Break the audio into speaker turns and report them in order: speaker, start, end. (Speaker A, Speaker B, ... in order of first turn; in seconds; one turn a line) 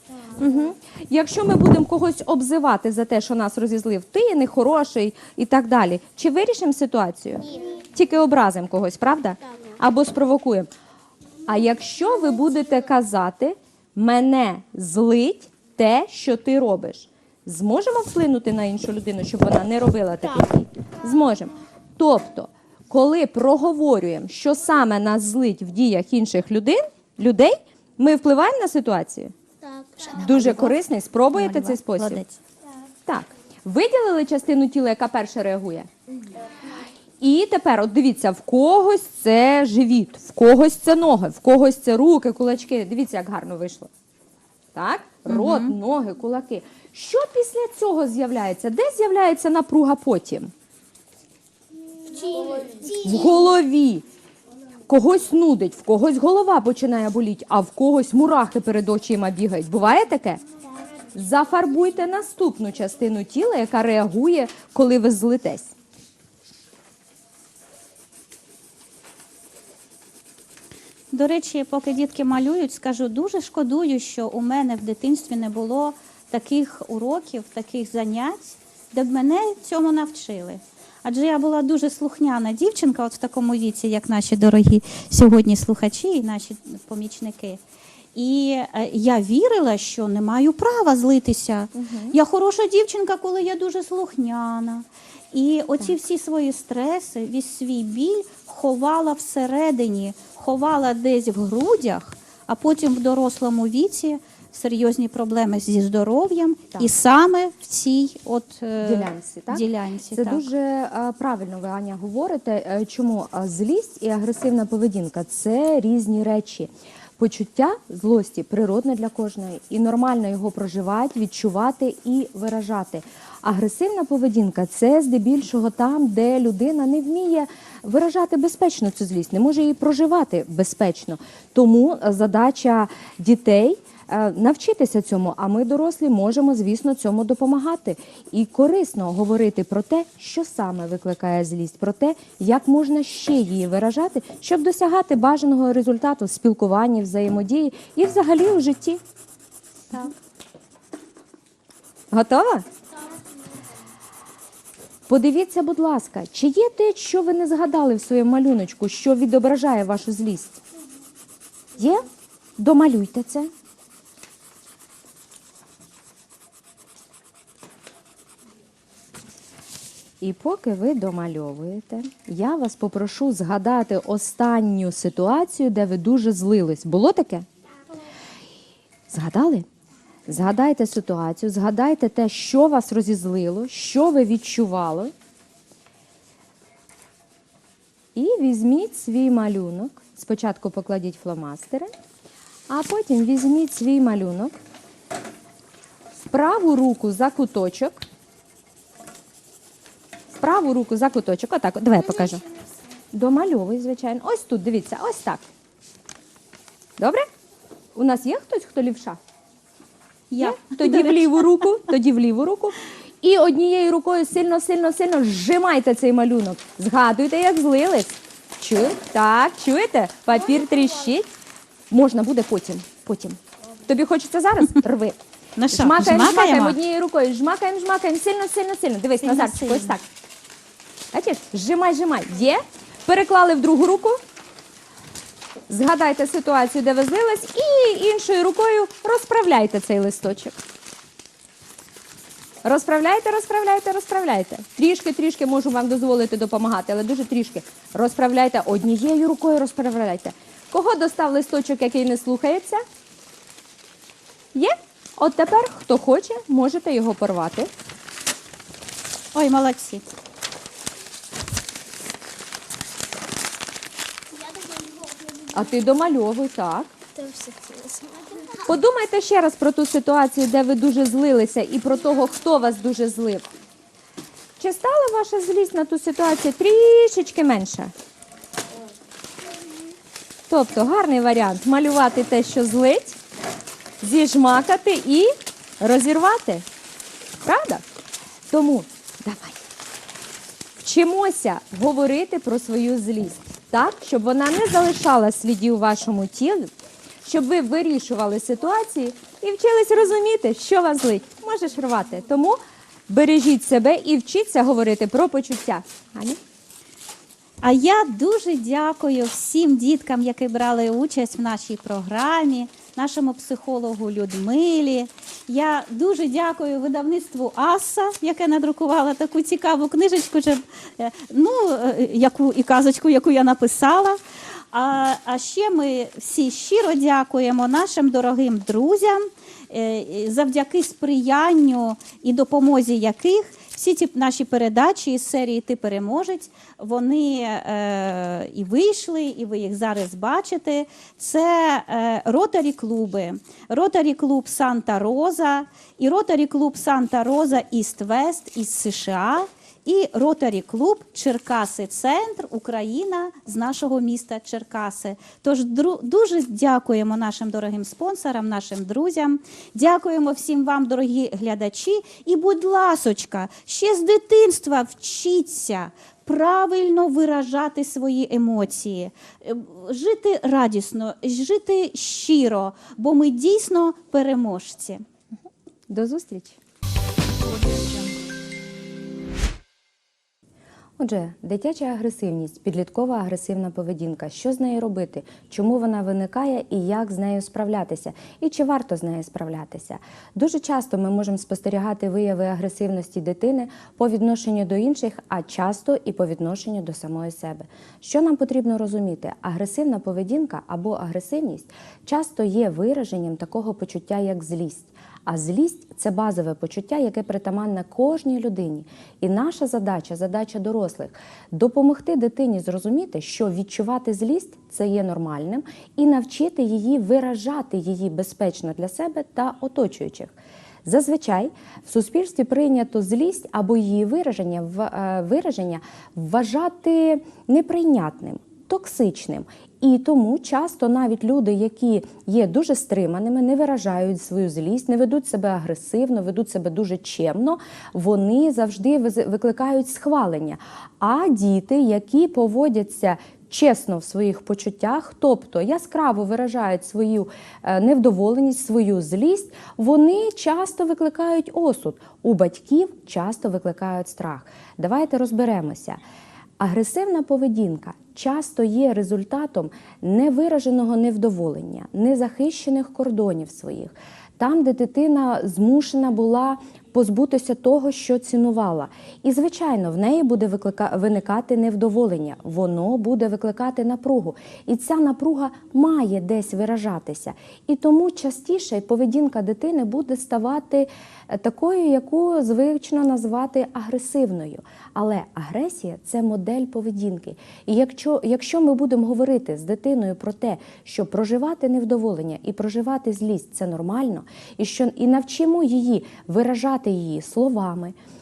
Speaker A: 0.4-10.7
Speaker A: 11.5-29.3
Speaker B: 29.6-30.2
Speaker A: 30.1-32.2
Speaker C: 30.2-30.8
Speaker C: 31.4-32.4
Speaker A: 33.1-35.9
Speaker A: 37.2-43.9
Speaker A: 44.8-50.5
Speaker C: 45.3-45.8
Speaker B: 52.1-53.5
Speaker A: 53.0-54.0
Speaker A: 54.9-60.4
Speaker A: 61.1-65.7
Speaker C: 71.1-87.6
Speaker C: 88.2-110.5
Speaker A: 91.7-92.2
Speaker A: 108.8-149.0
Speaker A: 152.1-152.7
Speaker A: 155.1-160.6
Speaker A: 161.8-162.1
Speaker A: 162.6-163.5
Speaker A: 170.2-177.5
Speaker A: 179.1-179.7
Speaker A: 180.3-185.1
Speaker A: 188.2-191.9
Speaker A: 192.7-194.6
Speaker A: 196.3-198.0
Speaker A: 200.4-202.4
Speaker A: 203.1-205.4
Speaker A: 207.0-207.3
Speaker A: 207.9-209.2
Speaker C: 210.3-211.8
Speaker A: 210.4-221.3
Speaker A: 221.9-225.2
Speaker C: 225.6-226.8
Speaker A: 225.7-230.0
Speaker C: 229.2-230.0
Speaker A: 231.1-234.2
Speaker A: 235.7-240.6
Speaker A: 242.6-252.8
Speaker A: 254.5-257.7
Speaker C: 259.3-260.1
Speaker B: 264.3-265.7
Speaker A: 265.5-266.9
Speaker B: 267.1-268.7
Speaker A: 268.7-273.5
Speaker A: 274.6-277.9
Speaker A: 280.5-283.2
Speaker A: 284.0-286.6
Speaker A: 287.4-287.9
Speaker A: 288.5-289.6
Speaker A: 290.8-296.7
Speaker A: 297.2-306.4
Speaker C: 307.6-324.2
Speaker C: 324.7-375.1
Speaker A: 375.9-376.6
Speaker A: 381.0-456.0
Speaker A: 456.6-497.9